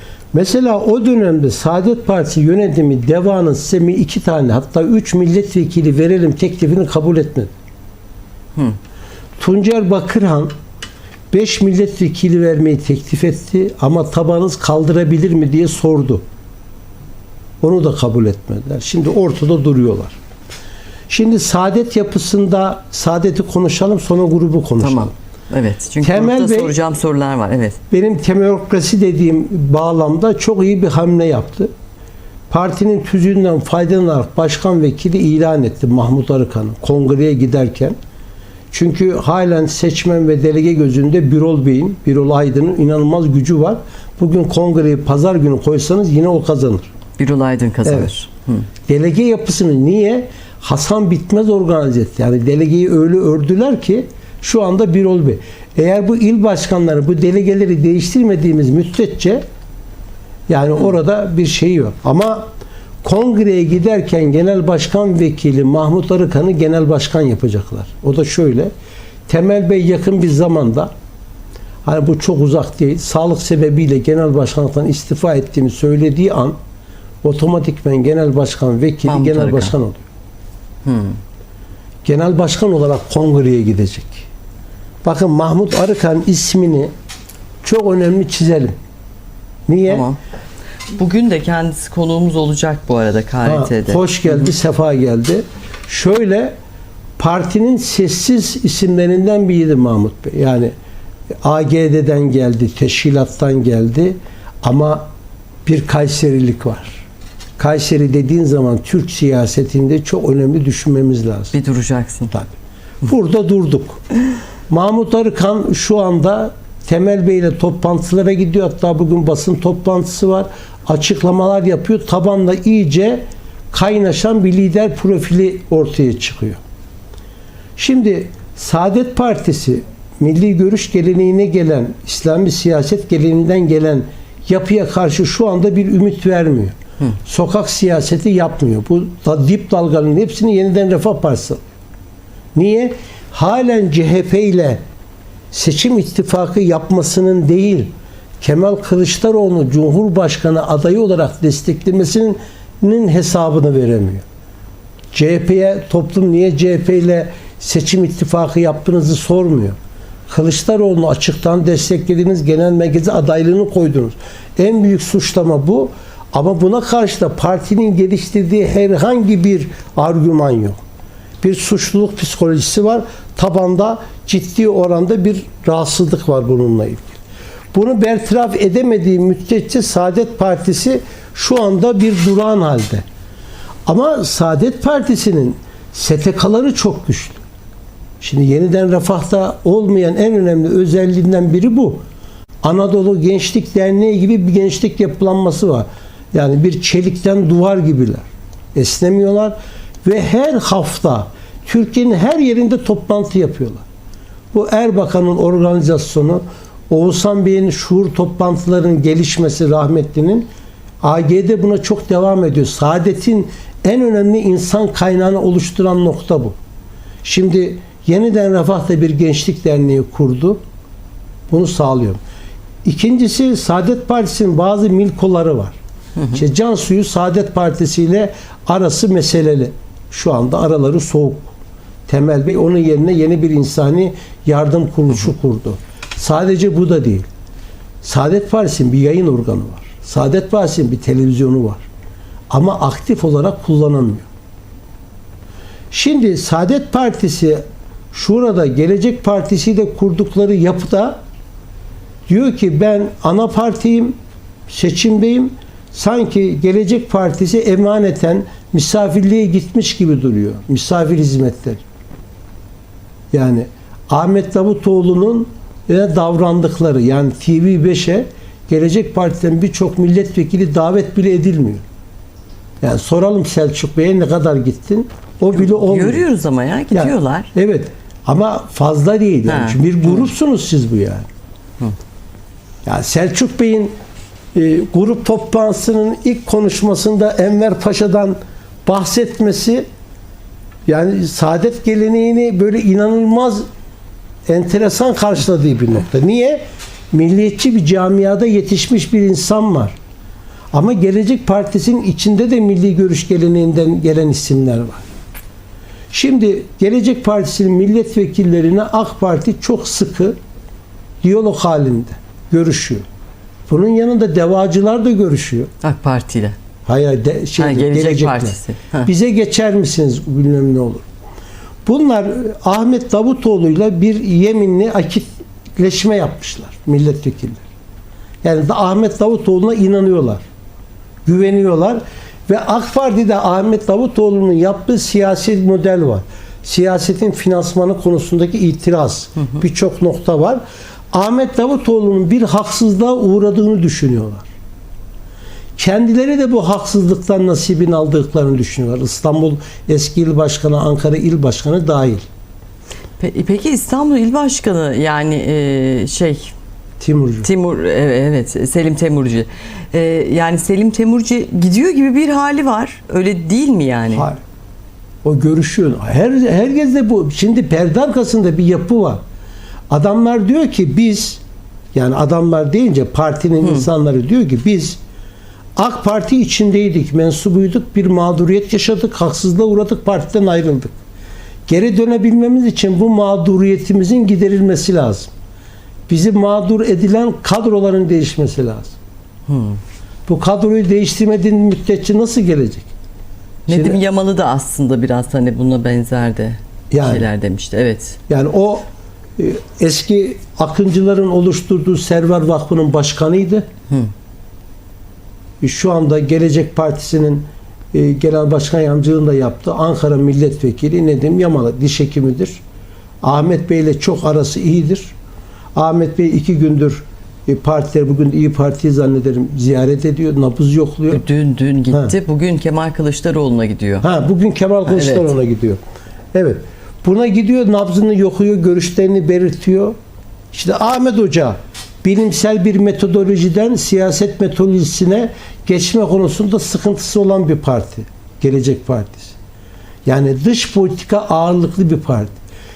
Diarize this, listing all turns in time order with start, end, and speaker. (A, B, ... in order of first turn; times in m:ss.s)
0:00.3-0:07.5 A
0:09.4-0:10.5 A
0:11.3-0:16.2 A
0:17.6-0:20.2 A
0:21.1-0:25.1 A
0:24.8-0:27.8 B
0:26.0-0:26.7 A
0:27.9-0:31.7 A
0:32.5-0:38.0 A
0:38.7-0:46.9 A
0:47.2-0:48.6 B
0:47.8-0:48.1 A
0:48.9-0:59.4 A
1:00.5-1:02.5 A
1:03.0-1:08.7 A
1:09.3-1:10.9 A
1:11.8-1:16.6 A
1:17.2-1:20.0 A
1:19.0-1:19.7 B
1:20.8-1:21.2 B
1:22.0-1:24.2 A
1:25.0-1:26.9 A
1:27.6-1:28.7 A
1:29.7-1:30.1 A
1:29.9-1:30.2 B
1:30.9-1:34.5 B
1:33.4-1:36.5 A
1:37.2-1:40.7 A
1:41.4-1:45.1 A
1:45.6-1:47.0 A
1:47.6-1:51.6 A
1:51.5-1:52.3 B
1:53.0-1:54.0 A
1:54.7-2:06.6 A
2:07.8-2:21.6 A
2:22.5-2:24.8 A
2:25.5-2:34.2 A
2:35.1-2:39.8 A
2:40.3-2:50.8 A
2:51.4-2:57.2 A
2:57.7-3:03.0 A
3:03.9-3:07.4 A
3:08.2-3:12.0 A
3:12.6-3:23.8 A
3:24.5-3:30.5 A
3:31.0-3:36.6 A
3:37.2-3:40.6 A
3:41.5-3:42.2 A
3:42.8-3:51.5 A
3:52.1-3:57.3 A
3:58.0-4:01.8 A
4:02.5-4:04.3 A
4:05.9-4:11.2 A
4:12.3-4:14.2 A
4:14.7-4:21.8 A
4:23.3-4:31.8 A
4:32.8-4:36.3 A
4:35.5-4:37.5 B
4:36.9-4:41.3 A
4:39.5-4:40.2 B
4:42.8-4:43.9 A
4:44.5-4:49.8 A
4:50.9-4:53.6 A
4:54.5-4:56.6 A
4:57.1-4:59.9 A
5:00.7-5:05.0 A
5:06.1-5:10.4 A
5:11.2-5:13.0 A
5:13.7-5:15.7 A
5:15.8-5:16.6 B
5:16.8-5:21.0 A
5:17.6-5:19.1 B
5:21.8-5:27.6 A
5:28.4-5:30.4 A
5:31.2-5:40.6 A
5:41.1-5:44.5 A
5:45.8-5:52.2 A
5:53.2-5:56.5 B
5:57.0-5:57.5 A
5:57.4-6:04.3 B
6:04.1-6:04.4 A
6:05.2-6:09.2 A
6:09.9-6:11.4 A
6:11.9-6:15.0 A
6:15.8-6:21.0 A
6:21.7-6:25.3 A
6:26.1-6:29.0 A
6:29.5-6:29.8 B
6:30.3-6:32.9 A
6:33.7-6:38.2 B
6:33.7-6:34.0 A
6:36.9-6:37.2 A
6:38.3-6:38.8 A
6:39.4-6:43.6 A
6:45.6-6:52.6 A
6:53.2-6:55.1 A
6:55.8-7:01.2 A
7:01.1-7:04.1 B
7:04.0-7:05.8 A
7:04.9-7:05.3 B
7:06.3-7:09.9 A
7:10.5-7:19.4 A
7:20.0-7:22.4 A